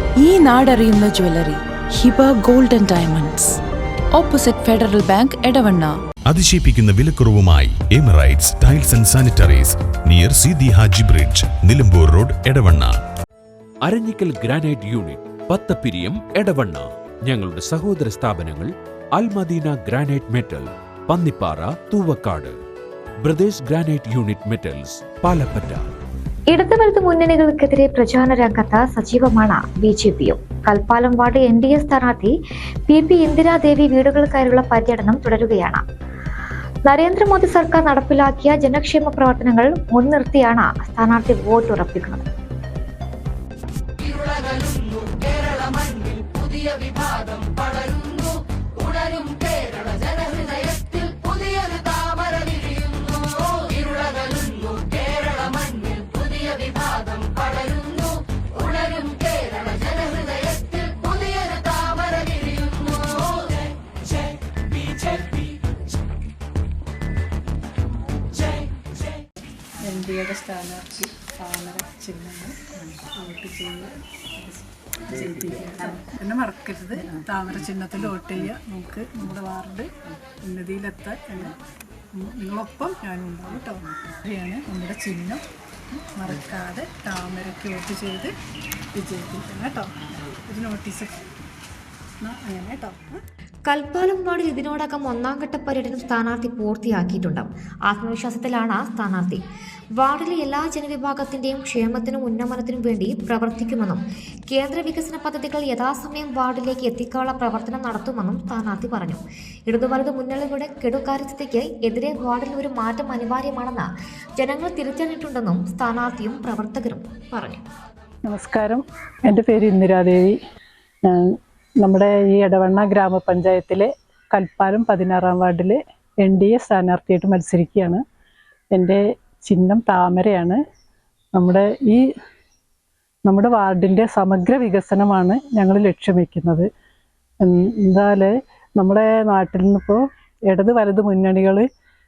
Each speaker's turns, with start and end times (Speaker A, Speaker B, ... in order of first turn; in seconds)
Speaker A: 0.2-3.6, 4.1-5.9
Speaker B: 6.3-13.0
Speaker C: 13.8-22.6, 23.2-25.9
Speaker D: 26.5-32.3, 32.9-35.8, 36.8-42.2, 93.7-99.4, 100.0-117.7
Speaker E: 69.8-81.5, 82.2-85.4, 85.9-88.3, 89.0-91.2, 92.2-93.2, 118.2-120.4, 121.0-128.0, 128.7-130.6, 131.3-132.1, 133.2-136.7, 137.4-141.7